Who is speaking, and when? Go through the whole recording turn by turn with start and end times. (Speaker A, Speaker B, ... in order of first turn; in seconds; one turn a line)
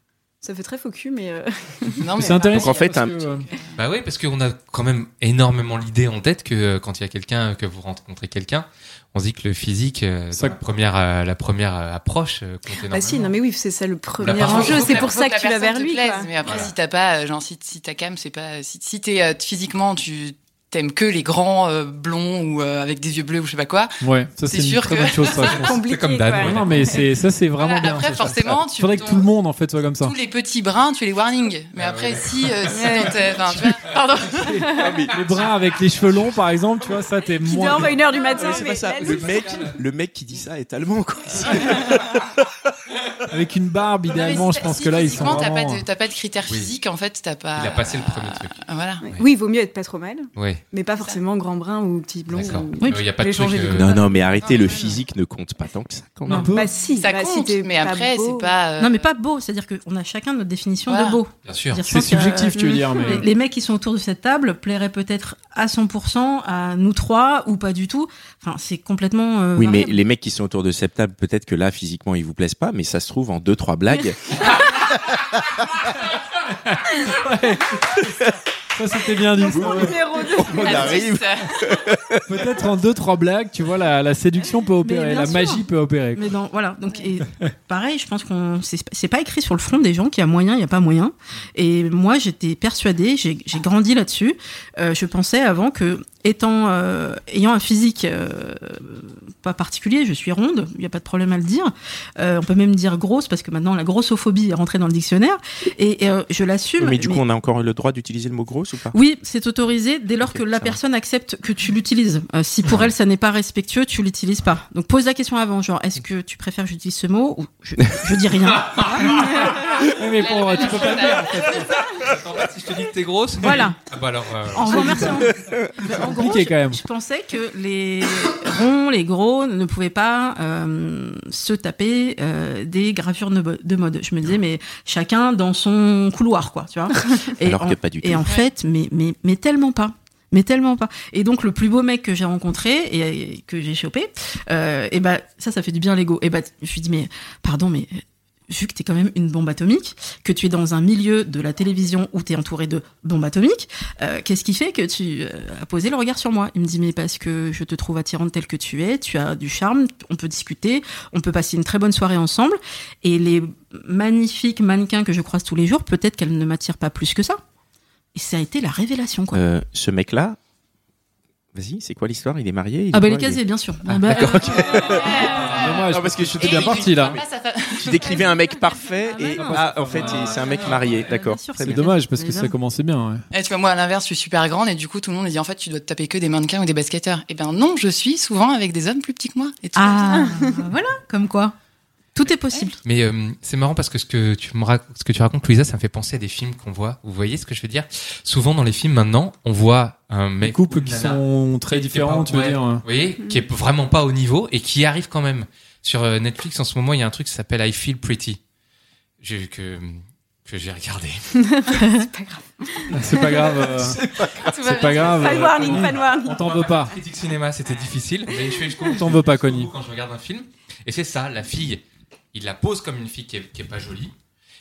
Speaker A: 0.4-2.1
Speaker B: 2.0-3.8
Speaker C: 2.1-3.5
Speaker D: 2.5-3.2
Speaker E: 3.8-13.3
Speaker C: 10.3-10.6
Speaker A: 12.9-16.3
Speaker E: 14.2-15.1
Speaker B: 14.3-25.7
Speaker E: 16.4-16.7
Speaker C: 24.0-25.8
Speaker A: 25.4-27.0
Speaker E: 25.7-27.0
Speaker C: 26.4-30.1
Speaker B: 27.6-29.3
Speaker B: 30.0-34.6
Speaker E: 31.8-33.0
Speaker A: 32.7-33.1
Speaker C: 33.5-33.8
Speaker C: 34.3-38.6
Speaker D: 34.7-35.4
Speaker A: 37.4-39.4
Speaker D: 38.4-42.5
Speaker E: 39.0-39.8
Speaker C: 43.3-45.8
Speaker B: 44.1-49.0
Speaker E: 46.5-46.7
Speaker E: 47.5-49.2
Speaker A: 49.0-54.6
Speaker E: 50.4-50.6
Speaker E: 52.3-53.9
Speaker D: 53.7-56.5
Speaker B: 54.4-55.0
Speaker C: 56.3-56.7
Speaker A: 56.5-58.5
Speaker B: 56.9-59.1
Speaker F: 58.8-70.0
Speaker B: 60.9-61.2
Speaker E: 61.4-61.8
Speaker C: 61.9-63.3
Speaker A: 62.5-63.2
Speaker D: 69.5-74.9
Speaker C: 76.7-78.2
Speaker C: 78.7-80.0
Speaker A: 79.4-81.0
Speaker D: 79.5-82.5
Speaker B: 80.5-81.6
Speaker C: 82.2-86.3
Speaker F: 84.8-107.2
Speaker D: 106.8-109.0
Speaker F: 108.9-119.3
Speaker D: 110.2-110.8
Speaker E: 119.0-119.4
Speaker C: 119.0-121.8
Speaker B: 119.8-121.5
Speaker E: 121.6-125.3
Speaker F: 123.4-123.8
Speaker F: 124.5-167.4
Speaker C: 124.7-125.0
Speaker D: 125.1-126.0
Speaker C: 126.0-126.8
Speaker D: 137.4-138.3
Speaker F: 168.1-169.4
Speaker D: 169.3-170.4
Speaker D: 171.5-177.1
Speaker F: 172.9-175.0
Speaker B: 174.7-178.3
Speaker E: 175.3-175.8
Speaker C: 175.4-177.2
Speaker D: 177.8-181.8
Speaker F: 179.1-182.6
Speaker C: 179.5-180.4
Speaker E: 179.8-181.0
Speaker C: 181.6-183.2
Speaker B: 183.3-190.3
Speaker F: 189.8-191.5
Speaker A: 190.2-190.5
Speaker F: 192.1-192.8
Speaker E: 192.8-208.4
Speaker C: 200.4-202.8
Speaker E: 209.2-211.4
Speaker A: 211.4-213.6
Speaker C: 212.9-214.0
Speaker D: 213.7-214.5
Speaker B: 214.4-215.7
Speaker C: 214.5-217.0
Speaker A: 215.1-216.5
Speaker E: 215.7-224.1
Speaker C: 218.9-219.7